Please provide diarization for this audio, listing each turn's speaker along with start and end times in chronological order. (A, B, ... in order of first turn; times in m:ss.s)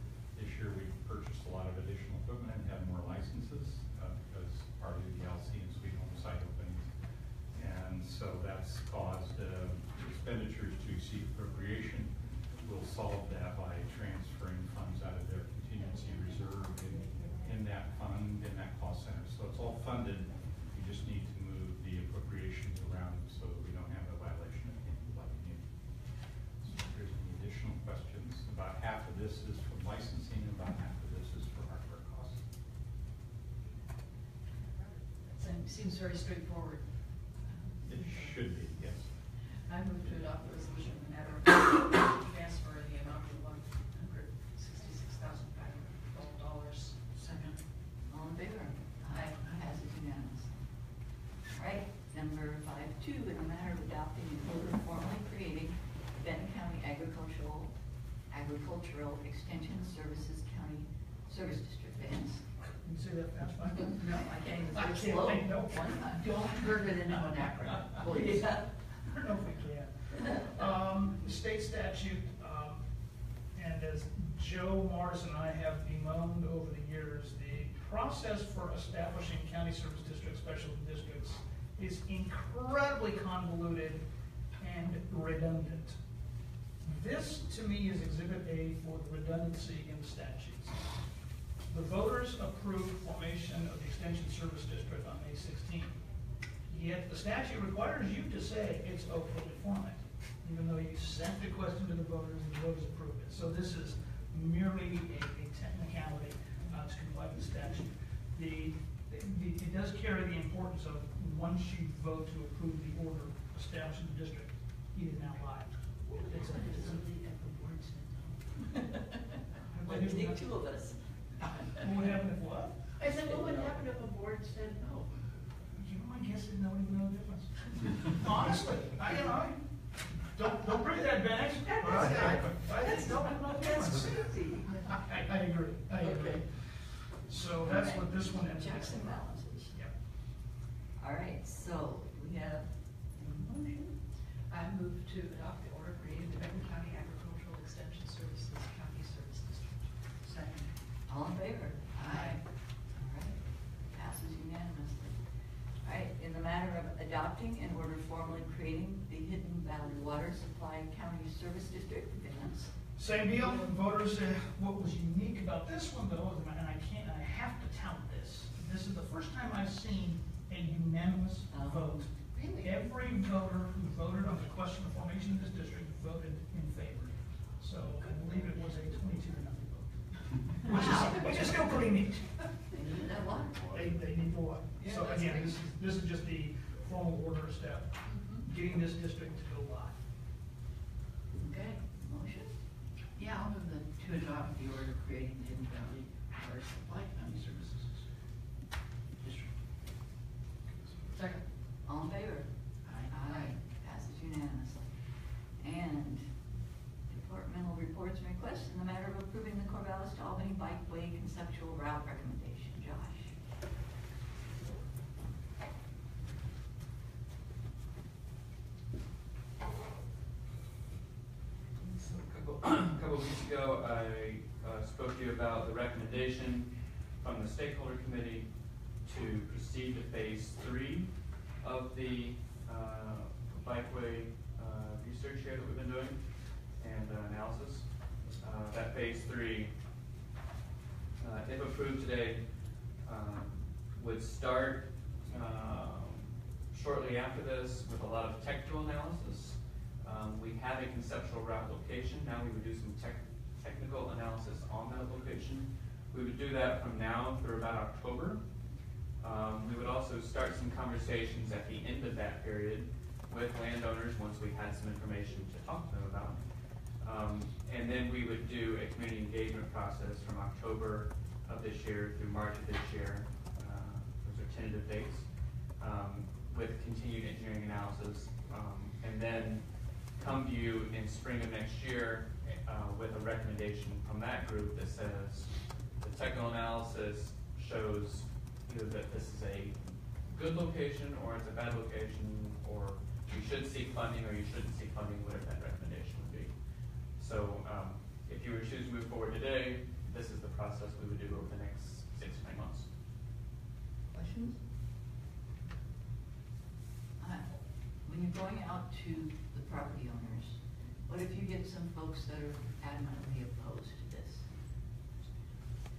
0:00.3-0:06.9 A
0:07.5-0:25.7 A
0:26.6-0:32.4 A
0:35.2-0:38.8 B
0:37.8-0:39.2 A
0:39.5-0:47.5 B
0:47.2-0:47.5 C
0:48.1-0:50.6 D
0:49.2-0:49.5 C
0:51.5-0:57.7 D
0:58.3-1:02.4 D
1:02.8-1:06.1 E
1:04.0-1:06.2 D
1:06.0-1:08.6 C
1:07.6-1:12.8 E
1:13.5-1:24.0 E
1:24.6-1:26.0 E
1:26.8-1:30.8 E
1:31.7-1:36.0 E
1:36.7-1:57.0 E
1:56.1-1:58.5 C
1:59.7-2:00.6 E
1:59.8-2:01.4 D
2:01.8-2:02.9 E
2:03.0-2:05.3 C
2:05.7-2:09.7 E
2:10.2-2:19.9 E
2:11.7-2:15.2 C
2:16.0-2:16.4 C
2:17.6-2:19.8 D
2:21.0-2:23.9 D
2:24.5-2:30.0 B
2:30.2-2:30.7 C
2:31.1-2:35.2 D
2:32.0-2:32.4 C
2:35.8-2:42.7 D
2:43.0-3:02.4 E
2:43.3-2:43.7 B
2:51.5-2:52.1 D
2:52.3-2:52.9 B
3:00.7-3:01.3 D
3:02.7-3:03.6 D
3:03.7-3:10.0 E
3:04.8-3:05.7 B
3:08.0-3:08.5 B
3:11.4-3:11.8 C
3:11.8-3:12.5 D
3:13.2-3:18.1 C
3:19.2-3:19.6 C
3:20.8-3:21.4 C
3:21.1-3:21.4 B
3:21.8-3:26.4 D
3:22.8-3:23.6 C
3:27.1-3:33.4 D
3:41.8-3:59.7 F
4:01.2-4:02.4 F
4:03.0-4:18.4 F
4:19.2-4:26.4 F
4:27.0-5:02.9 F
5:04.1-5:04.6 D
5:07.2-5:14.5 D